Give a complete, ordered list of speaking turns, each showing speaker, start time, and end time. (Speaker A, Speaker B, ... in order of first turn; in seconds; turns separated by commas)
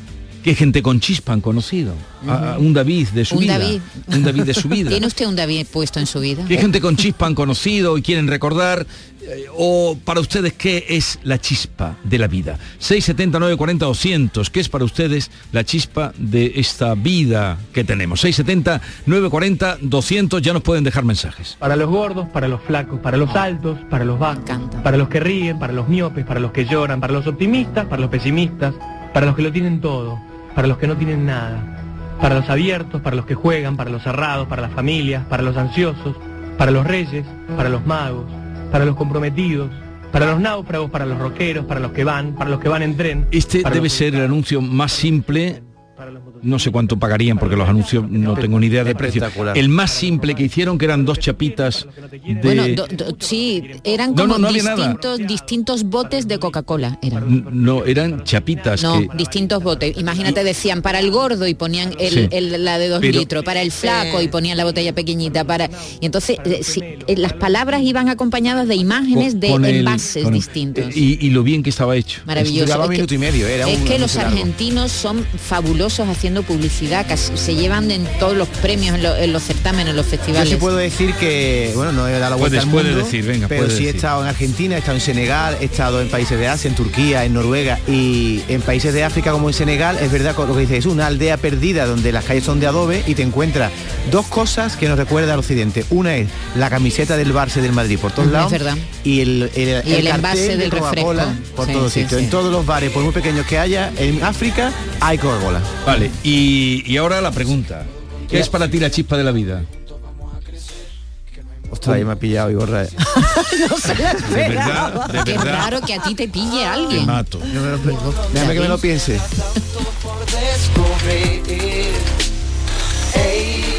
Speaker A: 0.4-5.1, Speaker B: 2.2-2.6, Speaker B: 3.3-4.1, Speaker B: 4.9-6.6, Speaker A: 6.5-21.6, Speaker C: 21.6-48.7, Speaker B: 24.3-24.8, Speaker A: 43.3-45.6, Speaker A: 46.4-52.8, Speaker D: 48.3-49.7, Speaker C: 49.7-62.1, Speaker B: 52.4-57.4, Speaker A: 54.1-55.0, Speaker A: 57.2-59.1, Speaker B: 58.8-71.0, Speaker A: 62.0-62.3, Speaker A: 63.0-63.3, Speaker C: 63.4-68.9, Speaker A: 69.1-72.3, Speaker B: 72.2-73.1, Speaker D: 72.3-74.5, Speaker B: 73.6-80.7, Speaker D: 80.3-105.7, Speaker A: 82.4-84.0, Speaker B: 98.2-98.9, Speaker B: 99.8-102.4, Speaker A: 105.8-109.7, Speaker D: 111.7-112.9, Speaker E: 113.3-115.7, Speaker A: 114.3-115.8, Speaker B: 115.2-117.2, Speaker A: 116.9-117.5, Speaker D: 117.5-119.2, Speaker B: 118.3-118.8